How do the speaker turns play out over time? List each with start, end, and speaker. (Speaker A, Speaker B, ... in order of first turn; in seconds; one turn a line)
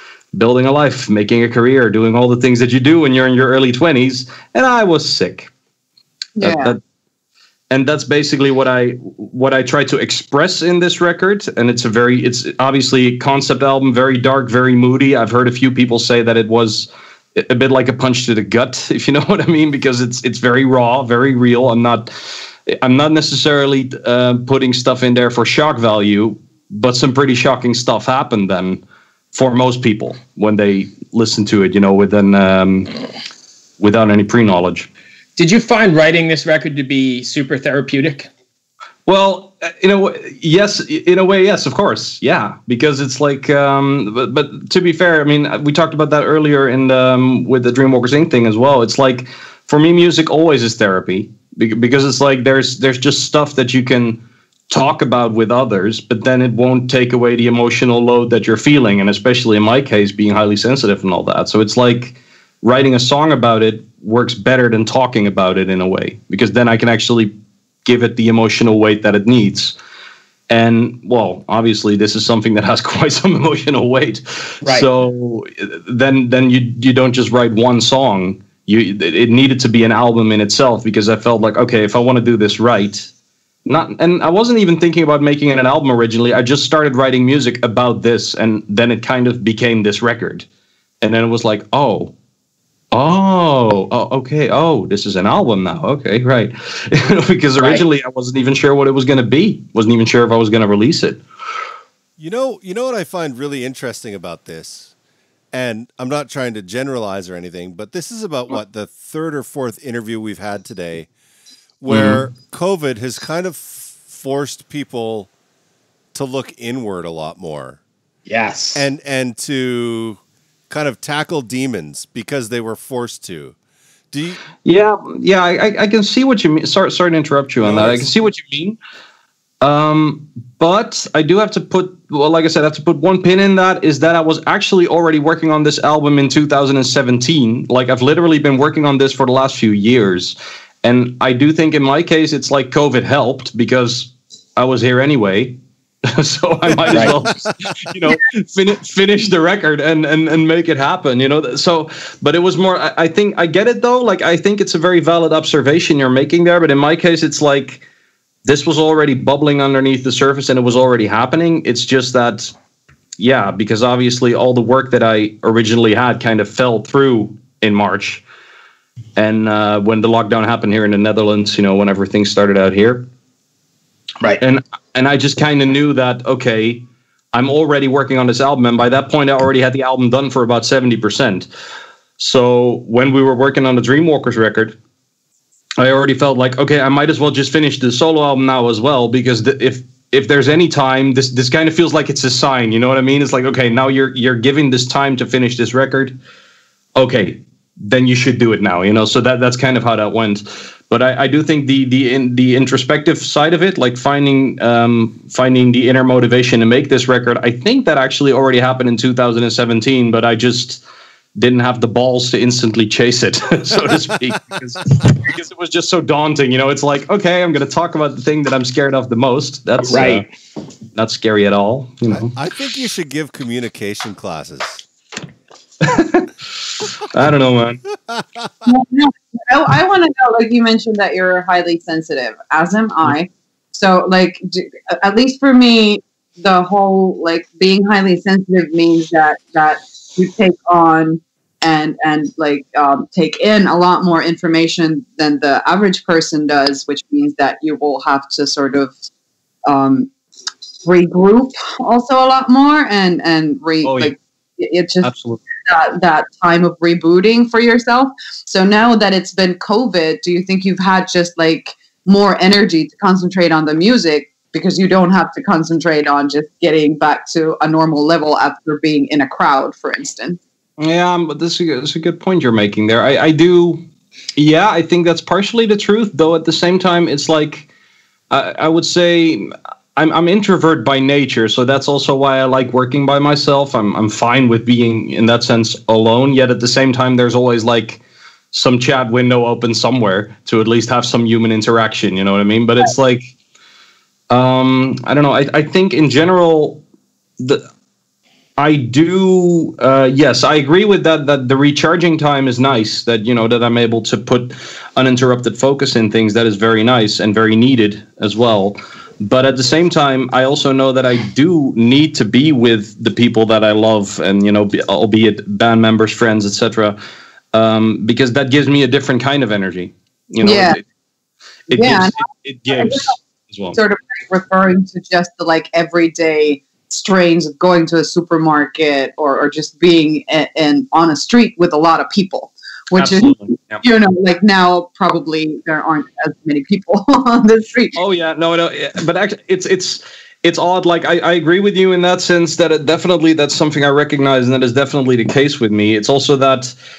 Speaker A: 0.3-5.5
Speaker B: 6.4-6.8
Speaker A: 6.4-6.8
Speaker A: 7.7-22.1
Speaker A: 22.7-32.9
Speaker A: 33.8-34.9
Speaker C: 35.4-38.3
Speaker A: 39.1-67.3
Speaker A: 67.8-69.7
Speaker A: 70.5-83.1
Speaker C: 74.6-74.9
Speaker A: 83.7-90.5
Speaker A: 91.0-92.1
Speaker A: 92.9-101.2
Speaker D: 102.2-104.9
Speaker D: 105.5-111.1
Speaker D: 111.8-115.3
Speaker A: 111.9-112.2
Speaker D: 116.1-117.8
Speaker C: 118.2-118.8
Speaker D: 118.7-123.5
Speaker D: 124.1-124.4
Speaker A: 124.6-128.8
Speaker D: 127.6-128.1
Speaker A: 129.6-157.8
Speaker D: 146.9-147.2
Speaker A: 158.4-162.5
Speaker A: 163.2-168.2
Speaker A: 169.2-173.1
Speaker A: 174.4-181.5
Speaker A: 182.2-184.8
Speaker A: 185.8-196.2
Speaker A: 197.0-210.8
Speaker A: 211.3-220.3
Speaker C: 219.8-220.2
Speaker A: 220.9-222.3
Speaker D: 222.1-224.8
Speaker A: 225.8-226.3
Speaker A: 227.0-227.8
Speaker D: 228.0-228.5
Speaker B: 228.7-248.9
Speaker B: 249.7-250.1
Speaker B: 250.8-255.1
Speaker A: 253.8-254.1
Speaker A: 255.0-255.4
Speaker B: 255.7-270.4
Speaker A: 270.8-273.8
Speaker A: 274.4-277.7
Speaker A: 278.3-293.3
Speaker A: 294.3-296.8
Speaker A: 297.4-297.6
Speaker A: 298.6-317.0
Speaker A: 317.5-320.8
Speaker B: 320.4-320.8
Speaker A: 321.7-323.8
Speaker B: 321.7-323.1
Speaker B: 323.7-337.9
Speaker A: 332.9-333.9
Speaker A: 337.9-346.8